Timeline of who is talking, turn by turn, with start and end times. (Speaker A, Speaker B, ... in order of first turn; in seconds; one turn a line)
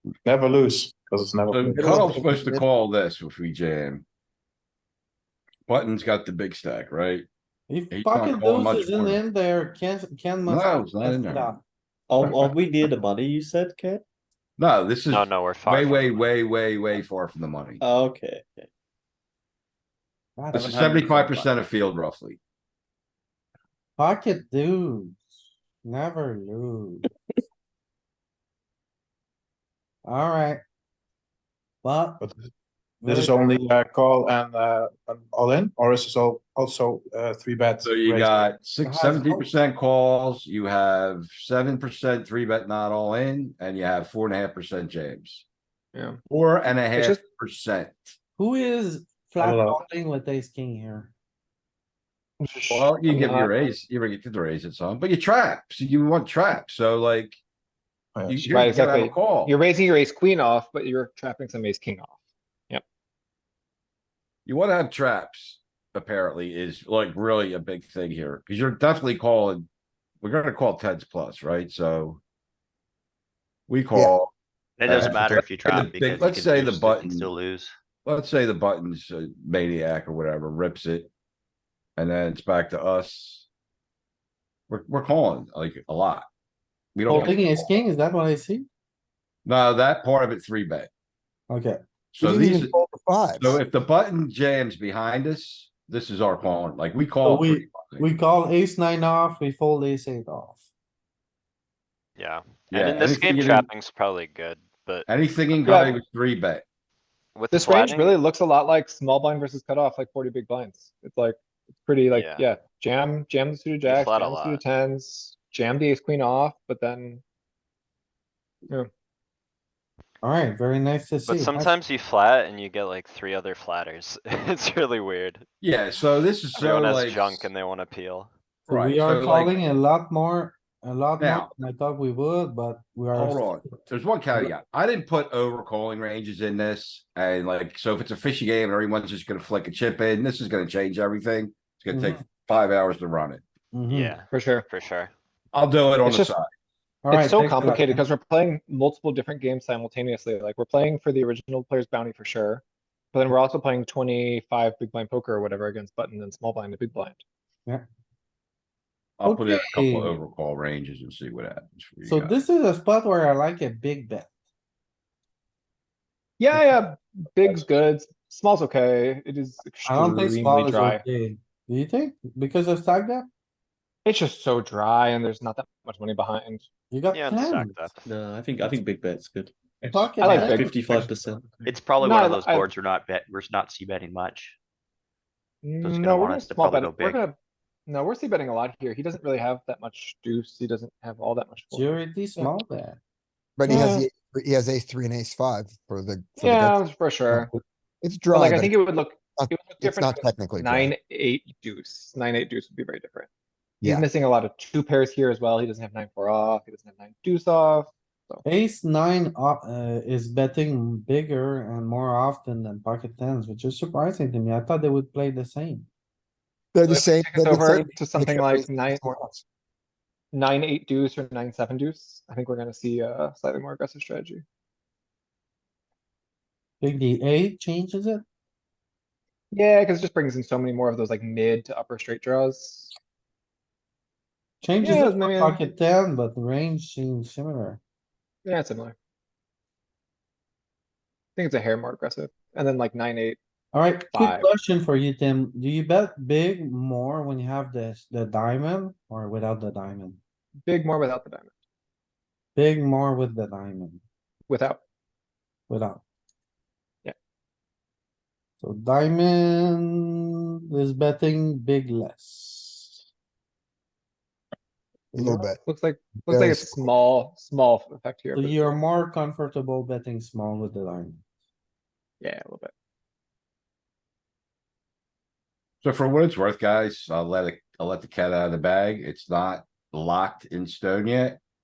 Speaker A: 0.2-2.2
Speaker B: 1.5-4.0
Speaker C: 1.8-2.6
Speaker B: 5.7-7.3
Speaker D: 7.7-11.6
Speaker B: 7.9-9.2
Speaker B: 10.4-11.5
Speaker E: 12.1-14.0
Speaker B: 14.6-17.8
Speaker F: 15.1-16.3
Speaker E: 17.8-18.7
Speaker D: 20.4-21.3
Speaker B: 20.5-22.4
Speaker D: 24.0-25.2
Speaker D: 25.8-27.0
Speaker D: 30.0-30.6
Speaker D: 31.8-32.3
Speaker D: 33.0-33.6
Speaker A: 33.0-38.5
Speaker B: 37.8-45.4
Speaker D: 38.8-39.5
Speaker G: 45.9-46.2
Speaker B: 46.3-48.1
Speaker G: 46.9-47.2
Speaker D: 48.4-51.1
Speaker A: 49.4-49.8
Speaker G: 52.7-53.7
Speaker B: 52.7-57.4
Speaker A: 58.1-58.5
Speaker B: 58.2-59.5
Speaker G: 58.5-62.1
Speaker B: 64.5-69.7
Speaker B: 70.2-72.2
Speaker B: 73.7-74.3
Speaker H: 74.8-77.7
Speaker B: 74.8-77.3
Speaker B: 78.0-81.1
Speaker B: 82.0-83.5
Speaker B: 84.7-86.2
Speaker B: 86.9-87.4
Speaker D: 87.1-88.7
Speaker B: 89.4-90.9
Speaker D: 91.5-92.5
Speaker B: 92.1-92.7
Speaker C: 92.2-93.6
Speaker B: 93.3-98.1
Speaker D: 97.2-100.7
Speaker F: 102.2-105.1
Speaker B: 102.7-103.7
Speaker B: 105.1-106.6
Speaker G: 105.6-106.0
Speaker F: 107.3-108.2
Speaker G: 107.5-117.2
Speaker F: 112.1-112.4
Speaker F: 113.8-114.6
Speaker D: 120.2-121.8
Speaker F: 121.3-125.4
Speaker B: 125.6-127.5
Speaker F: 126.5-128.3
Speaker B: 128.7-129.6
Speaker D: 128.7-134.5
Speaker B: 131.2-131.5
Speaker B: 133.1-143.4
Speaker D: 141.9-142.3
Speaker D: 143.7-144.2
Speaker F: 143.9-145.1
Speaker G: 144.3-144.6
Speaker B: 145.5-146.5
Speaker G: 146.0-146.3
Speaker D: 147.0-148.0
Speaker G: 147.1-157.2
Speaker B: 159.2-162.3
Speaker D: 159.2-160.2
Speaker D: 162.1-164.3
Speaker G: 166.4-171.0
Speaker D: 169.8-173.3
Speaker G: 174.0-176.7
Speaker D: 176.9-177.8
Speaker F: 177.1-178.0
Speaker E: 178.0-181.6
Speaker A: 179.8-181.7
Speaker D: 179.9-180.6
Speaker G: 180.2-180.7
Speaker H: 181.7-184.6
Speaker G: 182.0-182.7
Speaker G: 185.6-192.6
Speaker H: 185.8-187.2
Speaker D: 191.7-193.0
Speaker C: 193.6-198.8
Speaker G: 193.7-194.1
Speaker G: 196.4-197.5
Speaker G: 198.3-203.3
Speaker C: 199.3-200.9
Speaker C: 203.8-204.1
Speaker G: 203.8-208.4
Speaker D: 208.4-215.9
Speaker C: 216.7-219.4
Speaker G: 216.8-219.0
Speaker G: 220.3-224.4
Speaker D: 226.8-228.2
Speaker G: 229.5-232.9
Speaker D: 234.6-237.8
Speaker G: 234.8-235.6
Speaker G: 238.4-238.9
Speaker G: 241.3-243.4
Speaker D: 243.7-250.2
Speaker G: 244.1-244.5
Speaker G: 250.7-251.5
Speaker D: 252.5-254.0
Speaker G: 254.5-254.8
Speaker D: 255.7-256.0
Speaker D: 258.6-263.0
Speaker C: 265.1-265.6
Speaker G: 265.2-268.8
Speaker C: 266.3-266.8
Speaker D: 268.3-271.2
Speaker G: 272.2-272.7
Speaker B: 275.8-281.4